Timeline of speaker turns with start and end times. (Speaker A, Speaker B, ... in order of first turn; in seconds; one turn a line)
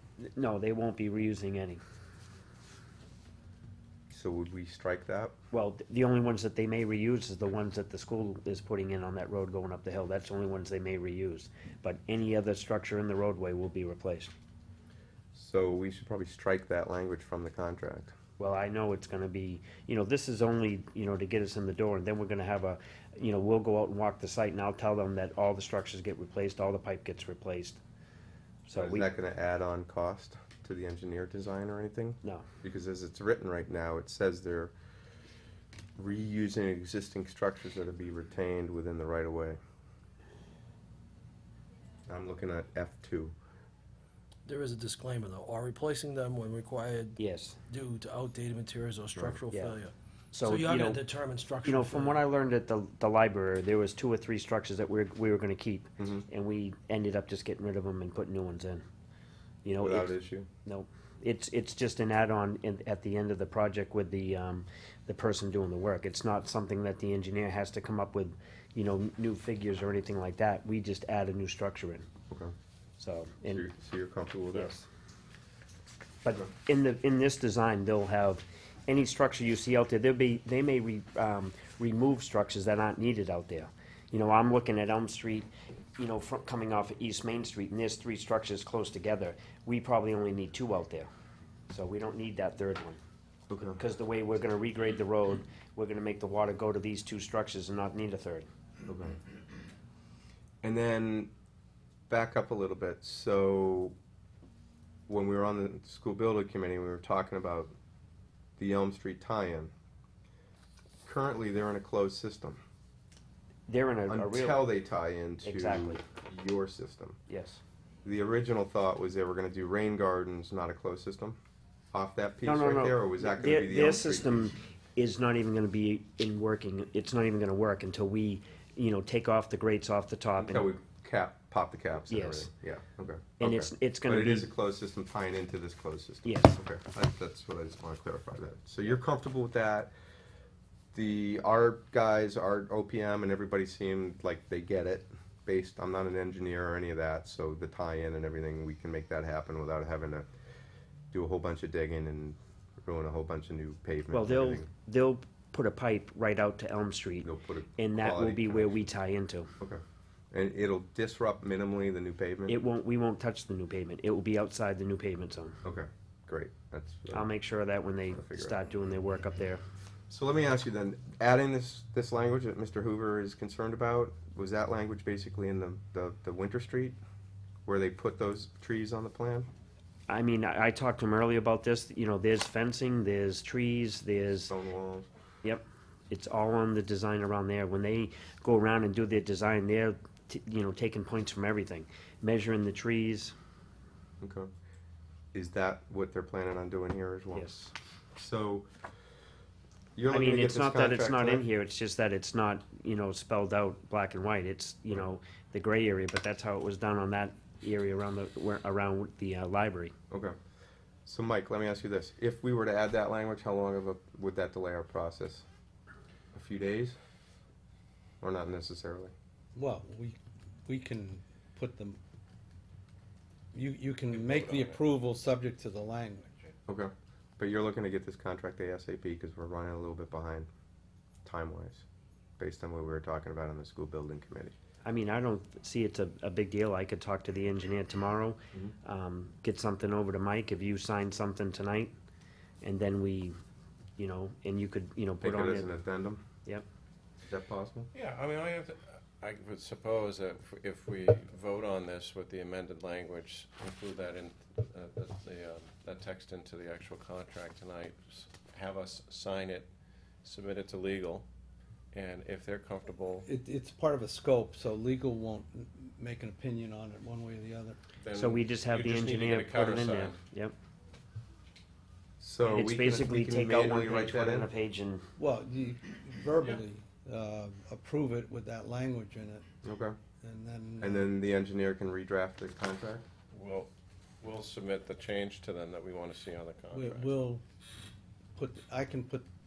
Speaker A: 0.2-1.8
Speaker B: 4.1-5.3
Speaker A: 5.5-14.3
Speaker B: 15.3-18.1
Speaker A: 18.4-27.8
Speaker A: 28.7-29.1
Speaker B: 28.7-34.7
Speaker B: 36.0-39.6
Speaker B: 42.1-43.3
Speaker C: 44.5-52.3
Speaker A: 47.2-47.6
Speaker A: 49.5-49.8
Speaker A: 50.3-51.1
Speaker A: 51.6-58.9
Speaker B: 56.0-56.2
Speaker A: 59.6-72.1
Speaker B: 59.8-60.5
Speaker A: 73.0-73.7
Speaker B: 73.5-74.7
Speaker A: 74.5-74.9
Speaker A: 76.2-91.1
Speaker A: 91.7-93.0
Speaker B: 93.5-93.8
Speaker A: 93.6-98.5
Speaker B: 98.8-99.2
Speaker B: 100.6-101.3
Speaker B: 102.1-104.0
Speaker B: 105.1-107.7
Speaker B: 108.6-109.7
Speaker B: 111.0-112.6
Speaker A: 113.7-114.6
Speaker B: 114.1-117.2
Speaker A: 115.4-116.0
Speaker A: 117.3-117.6
Speaker B: 118.0-121.4
Speaker B: 121.9-124.5
Speaker A: 122.5-130.7
Speaker B: 130.4-139.9
Speaker A: 132.1-132.5
Speaker A: 133.4-134.5
Speaker A: 136.2-136.6
Speaker B: 140.9-150.3
Speaker B: 151.1-154.7
Speaker A: 154.1-159.5
Speaker B: 157.2-158.9
Speaker B: 160.3-162.6
Speaker A: 162.5-165.6
Speaker B: 165.6-167.3
Speaker A: 167.1-169.6
Speaker B: 168.1-168.6
Speaker B: 170.1-177.0
Speaker B: 177.7-179.5
Speaker A: 180.1-184.5
Speaker B: 184.5-185.1
Speaker A: 185.4-193.3
Speaker B: 194.2-194.5
Speaker B: 195.3-198.7
Speaker A: 197.3-197.7
Speaker B: 200.0-201.4
Speaker A: 200.1-209.9
Speaker B: 210.1-210.4
Speaker B: 211.1-215.5
Speaker B: 216.3-217.0
Speaker B: 218.2-219.1
Speaker D: 219.6-222.0
Speaker D: 223.5-226.4
Speaker E: 224.1-224.8
Speaker B: 226.7-230.5
Speaker B: 231.2-231.9
Speaker B: 232.4-234.5
Speaker A: 234.8-241.9
Speaker A: 242.6-243.4
Speaker A: 244.0-245.7
Speaker B: 245.2-246.2
Speaker B: 247.3-247.9
Speaker E: 247.9-259.7
Speaker E: 260.2-261.3
Speaker E: 261.9-263.3
Speaker D: 263.2-267.8
Speaker E: 268.0-270.2
Speaker A: 268.1-270.6
Speaker B: 272.2-274.5
Speaker A: 272.4-275.1
Speaker D: 275.2-279.4
Speaker B: 279.6-280.0
Speaker D: 280.2-281.1
Speaker B: 280.8-283.1
Speaker E: 283.3-283.7
Speaker E: 284.2-287.2
Speaker D: 286.7-287.4
Speaker D: 288.4-289.3